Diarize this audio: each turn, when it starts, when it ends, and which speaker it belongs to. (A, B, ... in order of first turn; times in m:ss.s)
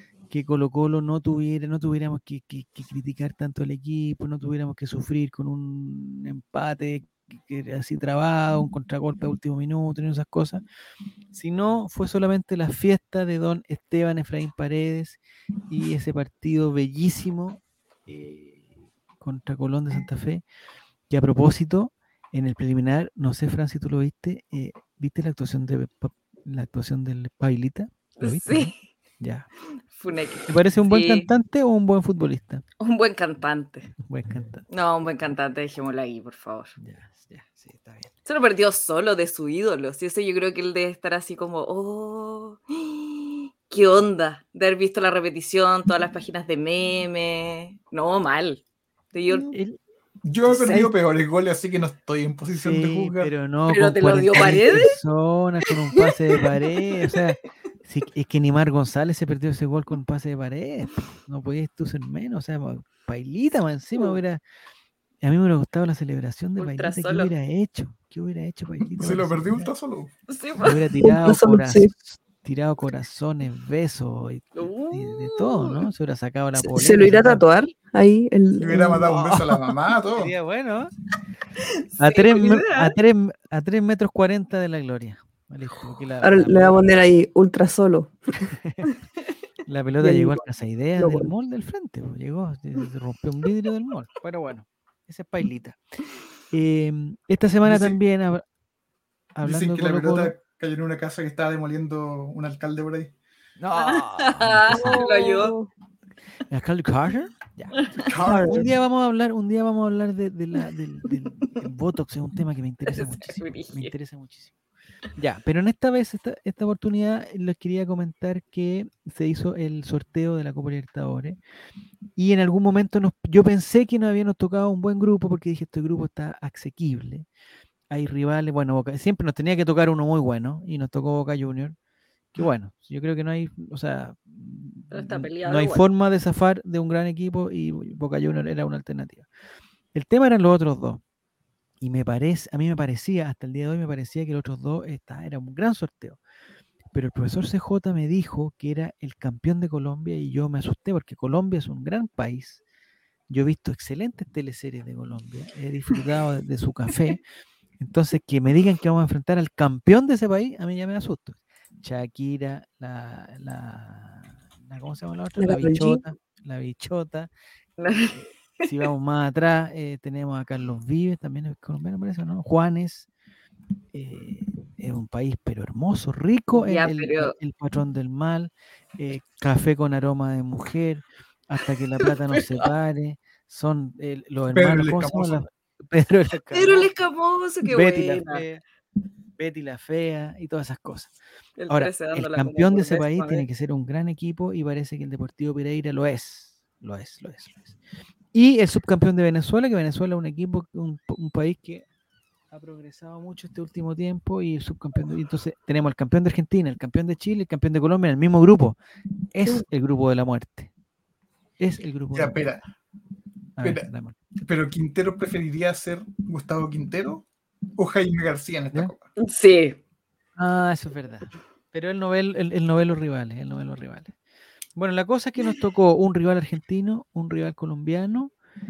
0:00.3-0:10.6 A
0:11.3-0:18.6 A
0:19.2-0:20.4 A
0:21.1-0:29.5 A
0:28.2-0:28.7 B
0:29.9-0:31.3 B
0:30.5-0:32.6 A
0:32.8-0:33.9 B
0:34.0-0:34.6 A
0:34.7-0:36.7 B
0:36.8-0:38.1 A
0:38.2-0:49.5 B
0:49.5-0:49.8 A
0:50.2-0:53.3 C
0:50.5-0:50.9 B
0:52.5-1:04.4 A
0:53.7-0:54.9 B
0:55.7-0:56.5 B
1:05.2-1:09.7 A
1:06.6-1:07.3 B
1:08.8-1:10.1 C
1:10.3-1:10.8 B
1:10.6-1:17.4 A
1:11.0-1:11.9 D
1:14.6-1:15.8 B
1:16.5-1:19.1 D
1:18.6-1:20.3 C
1:19.1-1:20.9 A
1:21.6-1:22.9 B
1:22.0-1:26.8 A
1:26.2-1:28.2 D
1:28.5-1:28.9 A
1:29.7-1:35.8 A
1:30.0-1:30.4 D
1:31.0-1:31.3 D
1:36.5-1:38.4 A
1:37.6-1:38.0 C
1:39.3-1:40.3 A
1:39.4-1:43.1 C
1:43.6-1:45.0 A
1:43.8-1:45.5 B
1:44.7-1:45.7 D
1:46.5-1:54.5 A
1:47.8-1:48.0 B
1:48.0-1:48.7 C
1:48.2-1:48.7 D
1:52.9-1:53.9 B
1:55.2-2:01.4 A
2:02.2-2:07.3 A
2:07.9-2:11.7 A
2:12.3-2:19.2 A
2:14.9-2:15.8 B
2:19.9-2:21.0 A
2:21.8-2:26.2 A
2:26.9-2:32.6 A
2:33.3-2:37.2 A
2:37.8-2:47.3 A
2:45.4-2:46.0 D
2:47.8-2:48.2 B
2:47.9-2:53.1 A
2:53.9-3:06.9 A
2:56.5-2:57.3 B
3:02.0-3:02.7 B
3:04.5-3:05.4 C
3:06.5-3:08.4 B
3:07.6-3:08.6 A
3:09.4-3:11.1 A
3:11.6-3:13.4 B
3:11.7-3:17.8 A
3:18.3-3:21.8 A
3:22.5-3:28.8 A
3:29.3-3:30.7 A
3:31.6-3:32.5 A
3:32.1-3:32.6 C
3:33.6-3:34.2 A
3:34.4-3:39.0 C
3:39.2-3:39.8 B
3:40.4-3:44.1 A
3:44.7-3:48.3 A